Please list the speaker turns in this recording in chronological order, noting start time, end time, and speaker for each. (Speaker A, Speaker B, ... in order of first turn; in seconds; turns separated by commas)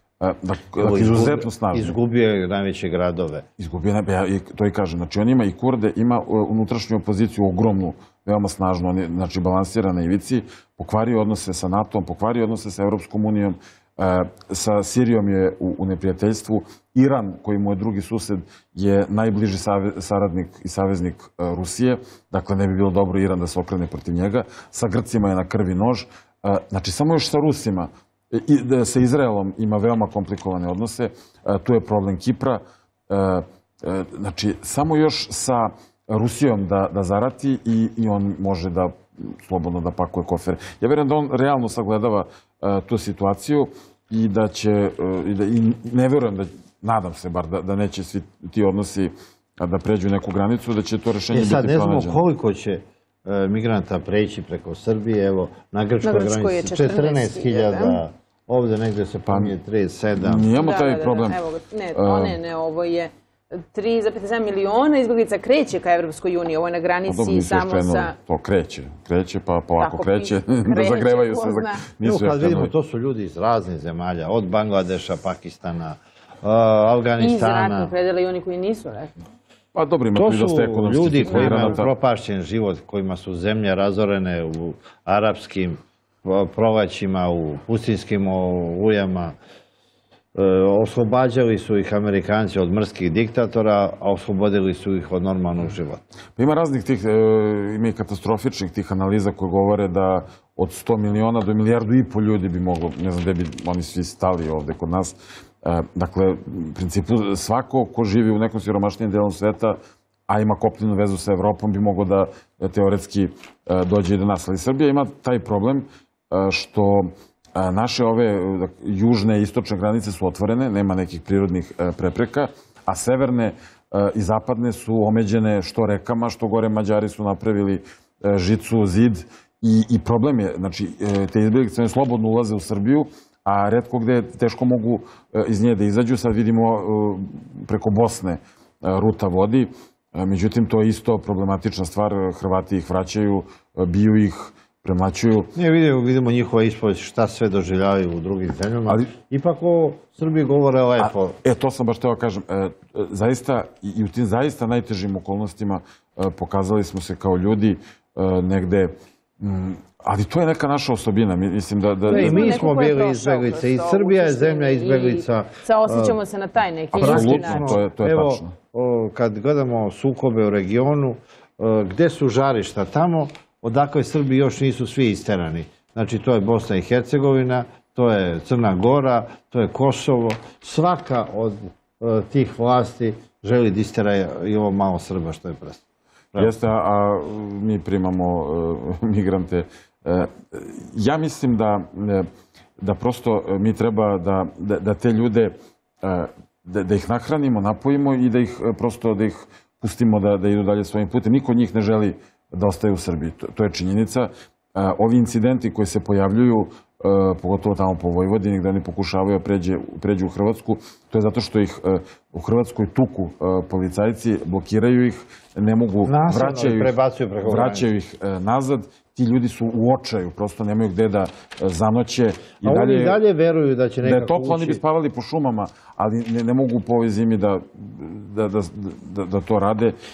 Speaker A: 0.2-1.9, Speaker B: 0.8-3.5, Speaker A: 3.6-52.2, Speaker B: 51.3-60.5, Speaker C: 56.0-58.0, Speaker A: 59.3-59.5, Speaker A: 60.2-61.4, Speaker C: 60.5-68.1, Speaker A: 61.9-62.4, Speaker A: 67.1-72.7, Speaker C: 69.8-71.8, Speaker B: 72.0-77.9, Speaker C: 77.2-79.2, Speaker A: 79.7-81.9, Speaker B: 80.1-89.3, Speaker C: 81.3-81.7, Speaker B: 90.3-96.0, Speaker A: 96.3-145.5, Speaker B: 145.6-151.4, Speaker A: 151.0-162.7, Speaker B: 162.1-166.2, Speaker C: 162.1-167.8, Speaker B: 166.9-185.8, Speaker A: 166.9-168.5, Speaker A: 186.4-192.3, Speaker A: 192.8-216.9, Speaker B: 216.0-217.9, Speaker A: 217.4-223.2, Speaker B: 222.6-224.8, Speaker A: 224.0-229.9